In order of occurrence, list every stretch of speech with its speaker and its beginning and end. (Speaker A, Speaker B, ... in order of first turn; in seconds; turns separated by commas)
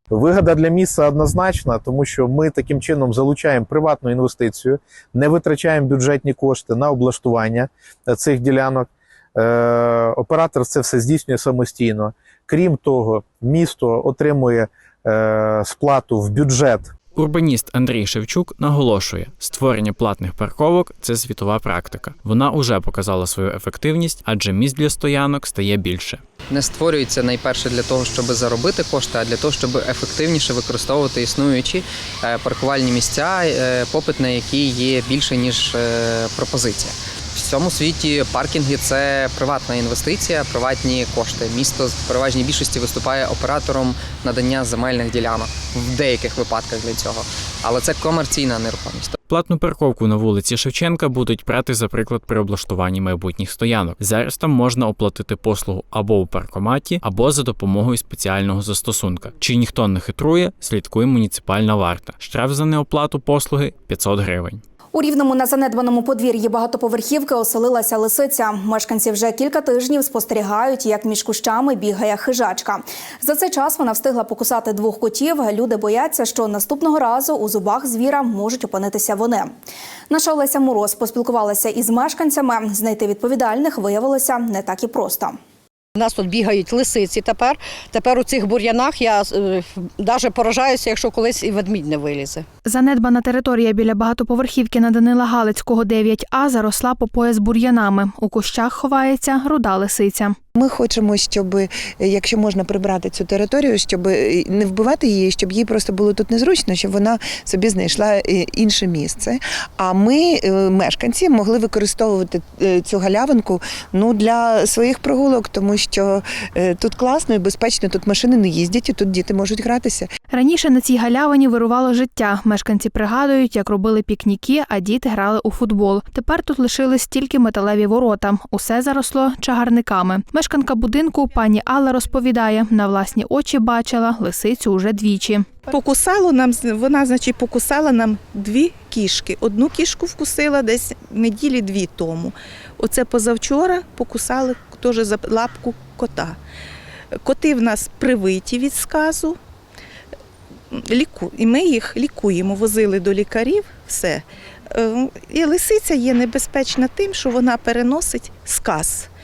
Speaker A: 0.1-16.9, Speaker B: 17.1-26.2, Speaker C: 26.5-49.1, Speaker B: 49.3-64.6, Speaker D: 64.9-79.5, Speaker D: 80.1-85.4, Speaker E: 86.0-92.5, Speaker F: 92.7-100.4, Speaker G: 100.6-120.1, Speaker F: 120.3-135.4, Speaker H: 135.7-146.4, Speaker H: 147.2-149.4, Speaker H: 150.7-159.1